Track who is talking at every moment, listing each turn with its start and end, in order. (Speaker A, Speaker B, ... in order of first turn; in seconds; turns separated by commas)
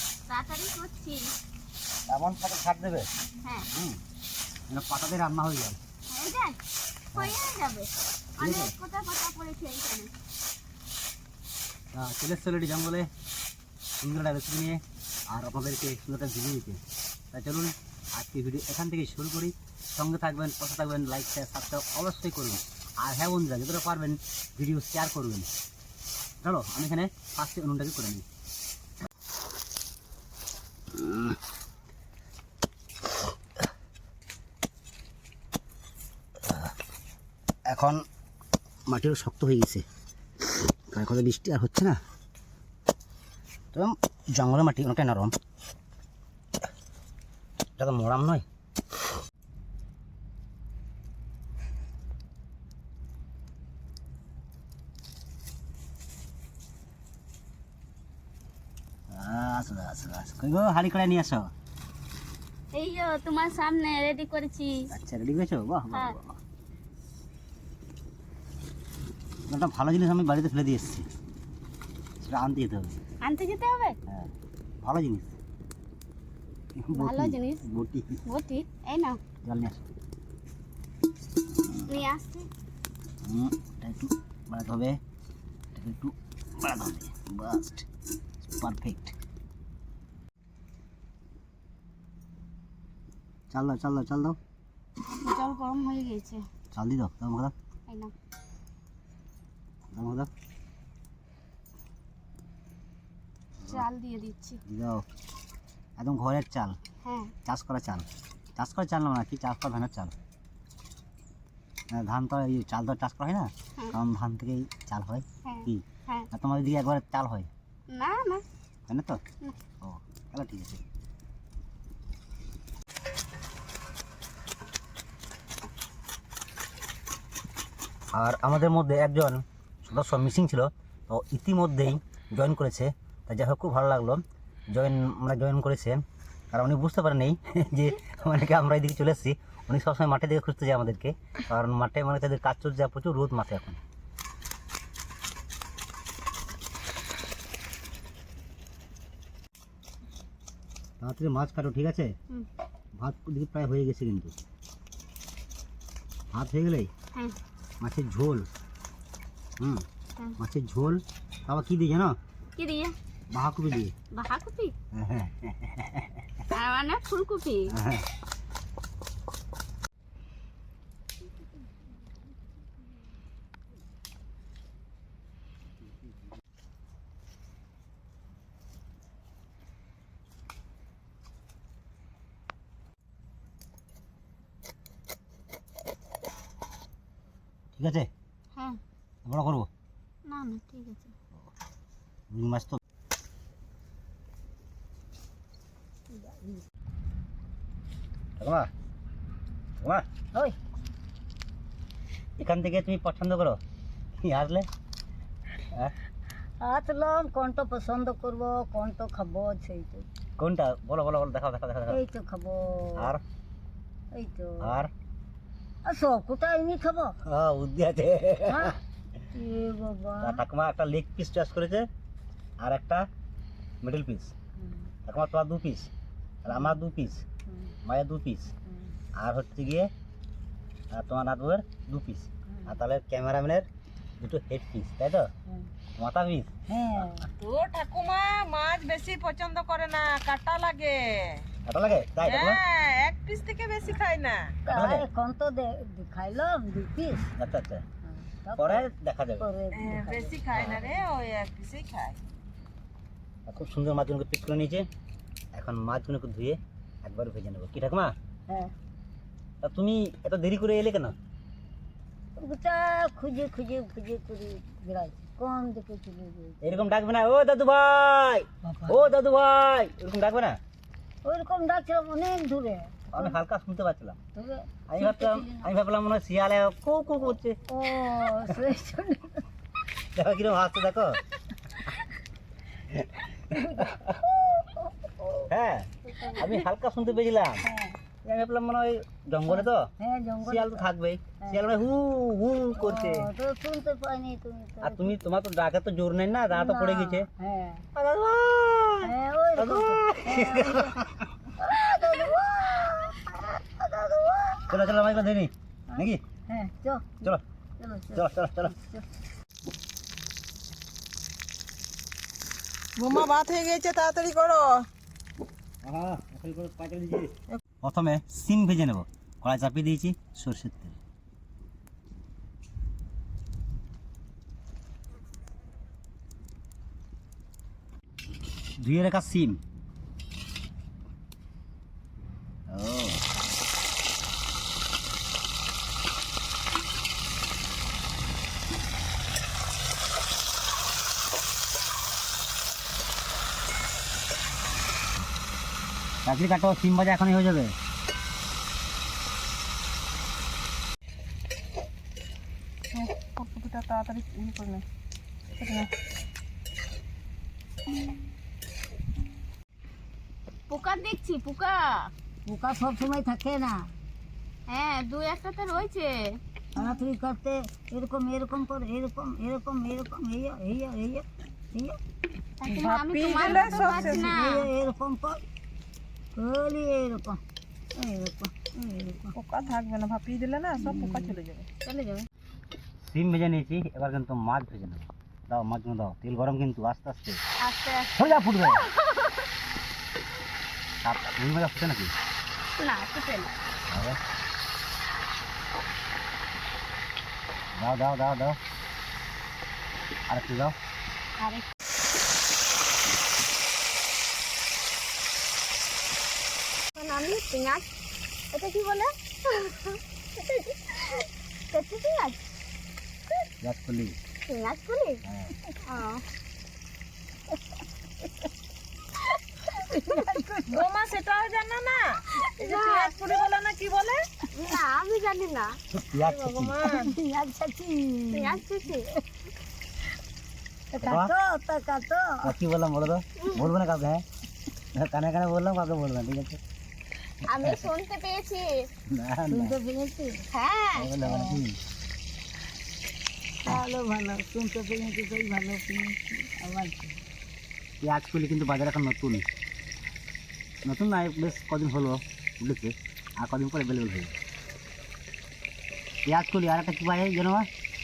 Speaker A: 0.3-1.3, Speaker B: 2.1-3.1, Speaker B: 3.7-4.0, Speaker B: 4.7-5.8, Speaker A: 6.1-6.6, Speaker A: 7.1-10.1, Speaker B: 8.4-8.7, Speaker B: 11.9-13.1, Speaker B: 14.0-16.8, Speaker B: 17.3-25.5, Speaker B: 26.4-28.3, Speaker B: 30.9-31.4, Speaker B: 37.7-38.0, Speaker B: 38.9-39.9, Speaker B: 40.9-42.0, Speaker B: 43.7-45.3, Speaker B: 47.8-48.5, Speaker B: 59.1-61.5, Speaker A: 62.7-64.8, Speaker B: 64.9-66.4, Speaker B: 69.5-71.0, Speaker B: 72.2-73.0, Speaker A: 73.2-74.0, Speaker B: 74.1-75.3, Speaker B: 76.8-78.2, Speaker A: 76.9-77.6, Speaker A: 78.2-79.2, Speaker B: 79.4-79.8, Speaker A: 81.9-82.5, Speaker B: 83.2-85.0, Speaker B: 85.8-87.9, Speaker B: 88.5-89.2, Speaker B: 93.5-94.4, Speaker A: 95.1-96.5, Speaker B: 96.7-97.5, Speaker A: 97.9-98.1, Speaker B: 99.9-100.3, Speaker A: 103.7-104.6, Speaker B: 104.7-105.0, Speaker B: 106.0-106.8, Speaker A: 107.0-107.3, Speaker B: 107.5-110.1, Speaker B: 111.9-117.5, Speaker A: 115.4-116.3, Speaker A: 117.9-118.4, Speaker B: 118.9-119.2, Speaker B: 119.8-120.8, Speaker B: 128.1-143.8, Speaker B: 151.0-152.1, Speaker B: 153.0-154.3, Speaker B: 156.3-156.9, Speaker B: 157.8-158.5, Speaker B: 159.6-159.8, Speaker B: 160.4-162.2, Speaker A: 162.6-162.9, Speaker B: 163.3-163.9, Speaker A: 164.1-164.7, Speaker B: 164.9-166.3, Speaker A: 166.5-167.7, Speaker B: 167.7-168.1, Speaker B: 187.8-188.1, Speaker B: 189.2-189.7, Speaker A: 190.3-191.1, Speaker B: 192.3-192.8, Speaker C: 196.2-196.5, Speaker B: 198.4-198.7, Speaker B: 199.8-200.1, Speaker B: 202.4-203.6, Speaker B: 204.2-204.7, Speaker C: 206.6-210.1, Speaker B: 210.4-212.0, Speaker C: 211.9-213.1, Speaker C: 214.2-214.8, Speaker B: 214.6-214.9, Speaker C: 215.9-217.1, Speaker B: 217.2-218.8, Speaker C: 218.5-218.7, Speaker C: 219.3-220.4, Speaker B: 220.2-221.9, Speaker B: 222.6-223.1, Speaker B: 223.8-224.3, Speaker B: 225.1-225.9, Speaker B: 226.4-227.2, Speaker C: 226.5-226.7, Speaker C: 227.5-227.7, Speaker B: 227.8-228.5, Speaker B: 229.2-229.9, Speaker B: 230.9-233.7, Speaker B: 234.2-235.3, Speaker B: 236.0-236.5, Speaker C: 236.7-237.3, Speaker D: 237.4-241.4, Speaker B: 241.7-242.6, Speaker D: 242.2-244.6, Speaker B: 244.7-245.1, Speaker C: 244.7-247.3, Speaker B: 247.4-247.8, Speaker C: 248.2-250.4, Speaker B: 248.6-249.5, Speaker D: 249.7-252.2, Speaker B: 250.5-250.9, Speaker B: 253.5-254.9, Speaker B: 255.5-258.1, Speaker B: 259.6-261.2, Speaker C: 262.4-266.8, Speaker B: 266.6-270.6, Speaker C: 268.6-269.0, Speaker C: 271.2-273.4, Speaker B: 273.1-274.2, Speaker C: 274.4-274.7, Speaker B: 274.9-277.6, Speaker A: 275.0-275.7, Speaker C: 277.7-279.4, Speaker B: 280.1-281.2, Speaker B: 282.9-284.2, Speaker C: 283.5-285.5, Speaker B: 285.5-287.6, Speaker C: 286.1-286.6, Speaker C: 287.6-287.9, Speaker B: 288.2-289.9, Speaker C: 289.5-290.9, Speaker B: 290.4-293.3, Speaker C: 292.8-295.3, Speaker B: 294.8-297.3, Speaker C: 296.5-297.9, Speaker B: 297.9-301.3, Speaker C: 299.1-300.9, Speaker C: 301.6-304.8, Speaker B: 304.7-306.2, Speaker C: 305.9-309.0, Speaker B: 308.1-308.8, Speaker D: 313.0-314.9, Speaker B: 315.8-321.0, Speaker B: 328.8-329.6, Speaker B: 332.7-333.2, Speaker B: 346.2-347.7, Speaker D: 352.9-354.8, Speaker D: 355.6-355.9, Speaker A: 360.7-362.1, Speaker C: 362.5-363.9, Speaker A: 364.7-366.4, Speaker C: 366.8-372.0, Speaker A: 372.6-374.7, Speaker D: 372.7-374.4, Speaker C: 373.4-375.4, Speaker C: 376.4-377.4, Speaker C: 377.9-379.4, Speaker D: 379.4-381.7, Speaker C: 380.8-381.4, Speaker A: 381.9-382.3, Speaker B: 383.1-387.4, Speaker A: 387.6-388.8, Speaker B: 388.1-388.8, Speaker B: 391.0-392.1, Speaker A: 392.8-393.5, Speaker B: 393.9-394.2, Speaker B: 397.8-398.6, Speaker B: 400.3-400.8, Speaker A: 401.4-401.6, Speaker A: 407.0-407.9, Speaker A: 408.5-412.4, Speaker B: 413.6-414.2, Speaker A: 414.5-415.2, Speaker B: 415.3-415.6, Speaker A: 415.9-416.2, Speaker C: 419.8-420.9, Speaker D: 420.7-424.3, Speaker A: 422.4-423.4, Speaker A: 424.5-425.8, Speaker B: 426.0-426.8, Speaker D: 426.1-427.1, Speaker C: 426.8-428.6, Speaker A: 428.3-429.1, Speaker C: 430.9-432.5, Speaker B: 431.0-431.3, Speaker B: 432.4-434.2, Speaker B: 435.0-436.6, Speaker A: 437.4-438.9, Speaker B: 437.6-437.9, Speaker B: 439.1-439.8, Speaker C: 439.5-440.4, Speaker A: 440.5-441.1, Speaker B: 441.0-441.8, Speaker C: 441.2-441.6, Speaker C: 443.6-447.2, Speaker B: 448.0-449.4, Speaker B: 450.9-454.4, Speaker B: 456.3-457.7